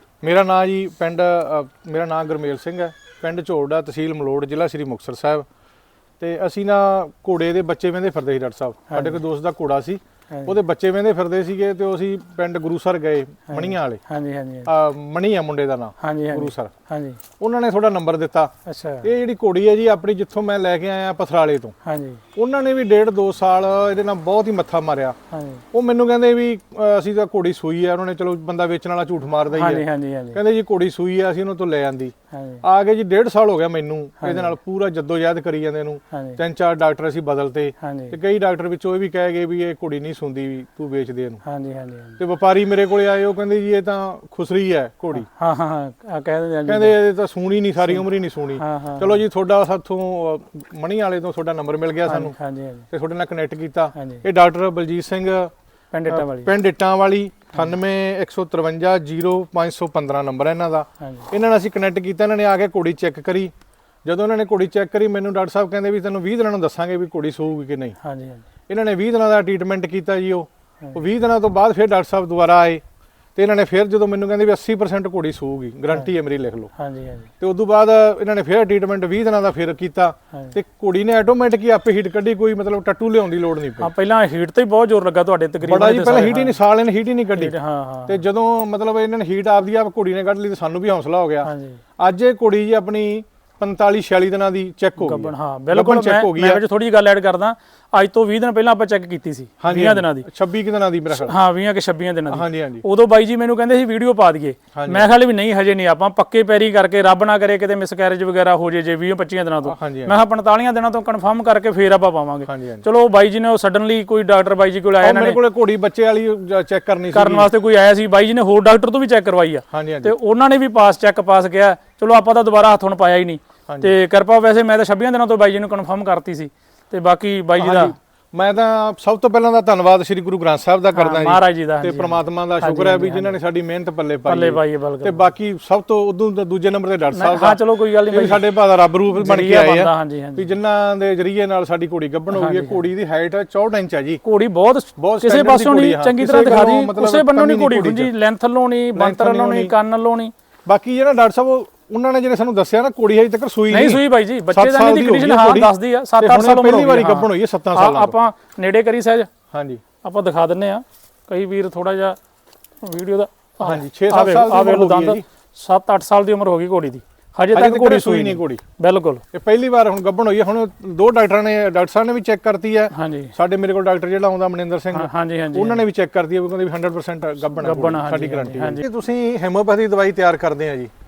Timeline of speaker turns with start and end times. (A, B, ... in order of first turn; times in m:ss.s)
0:00.2-0:05.4 A
0:06.2-0:14.0 A
0:08.9-0:09.2 B
0:10.3-0:10.6 B
0:13.5-0:14.7 B
0:14.7-0:16.7 A
0:16.0-0:17.2 B
0:17.4-0:18.5 A
0:18.6-0:19.1 B
0:19.0-0:21.7 A
0:21.8-0:22.2 B
0:22.4-0:25.2 A
0:25.3-0:25.6 B
0:25.7-0:41.4 A
0:29.5-0:30.4 B
0:32.3-0:32.6 B
0:34.2-0:34.5 B
0:36.1-0:36.4 B
0:37.8-0:38.2 B
0:41.4-0:42.2 B
0:42.2-0:45.3 A
0:45.2-0:47.0 B
0:46.7-0:52.3 A
0:48.6-0:49.2 B
0:52.0-0:52.8 B
0:52.9-0:55.5 A
0:54.0-0:54.2 B
0:55.9-0:56.5 B
0:56.1-1:03.5 A
1:01.0-1:01.3 B
1:04.0-1:08.0 A
1:08.0-1:08.4 B
1:08.7-1:12.8 A
1:13.4-1:16.7 A
1:16.8-1:17.3 B
1:17.4-1:23.9 A
1:23.8-1:26.6 B
1:25.6-1:27.6 A
1:27.4-1:28.2 B
1:28.1-1:36.6 A
1:31.4-1:31.8 B
1:35.0-1:40.3 B
1:39.6-1:41.3 A
1:41.1-1:55.4 B
1:42.3-1:42.8 A
1:44.7-1:45.1 A
1:49.7-1:50.2 A
1:52.4-1:52.8 A
1:55.0-1:57.5 A
1:57.1-2:07.9 B
1:59.7-2:00.1 A
2:03.7-2:03.9 A
2:07.6-2:24.2 A
2:10.9-2:13.4 B
2:14.3-2:15.3 B
2:17.1-2:18.4 B
2:19.1-2:20.5 B
2:22.3-2:22.8 B
2:24.2-2:30.3 B
2:25.0-2:28.1 A
2:28.9-2:29.7 A
2:30.6-2:38.2 A
2:33.7-2:39.3 B
2:39.5-2:39.8 A
2:40.0-2:42.2 B
2:42.8-2:49.2 B
2:43.6-2:45.2 A
2:47.5-2:48.6 A
2:49.3-3:00.9 A
2:52.9-2:53.3 B
2:54.9-2:55.8 B
2:57.6-2:58.8 B